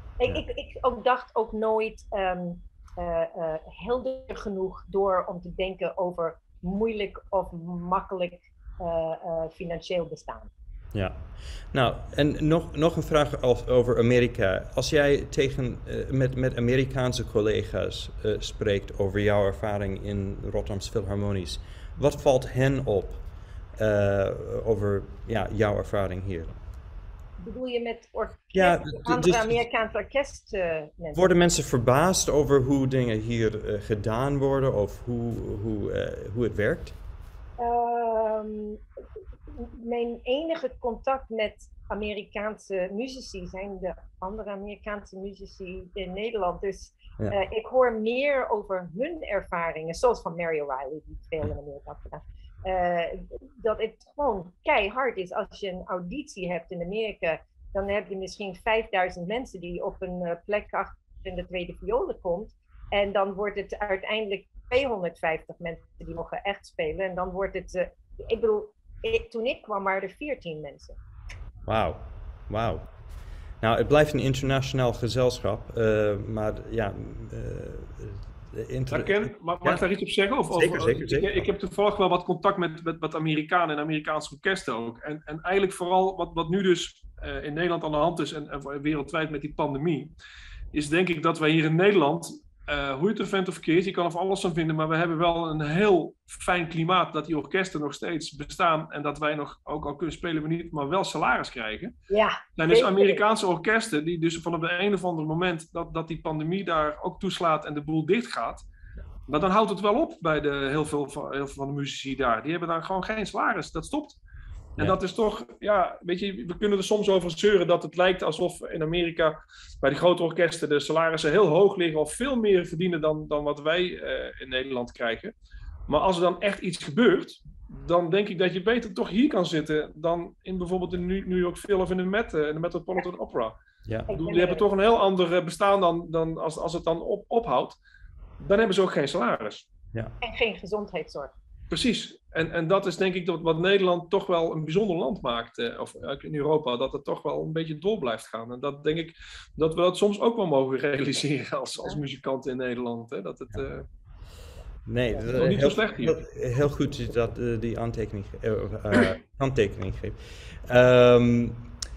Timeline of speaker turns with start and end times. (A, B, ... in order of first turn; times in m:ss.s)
0:00.2-0:10.5 A
0:10.9-0:11.2 B
0:11.7-0:23.2 B
0:23.8-0:26.5 B
0:27.4-0:31.2 A
0:28.5-0:29.6 B
0:31.1-0:37.0 B
0:37.6-0:38.8 A
0:39.5-1:11.0 A
1:11.7-1:12.9 B
1:13.6-1:19.8 B
1:18.9-1:30.1 C
1:20.5-1:21.4 B
1:30.7-1:41.9 C
1:42.1-1:43.2 A
1:42.6-1:48.6 C
1:49.3-1:54.2 C
1:54.8-2:05.3 C
2:05.9-2:13.6 C
2:14.1-2:14.6 A
2:14.1-2:17.8 C
2:18.4-2:19.7 C
2:20.2-2:21.3 A
2:21.7-2:33.9 C
2:34.9-2:41.7 B
2:35.3-2:36.2 C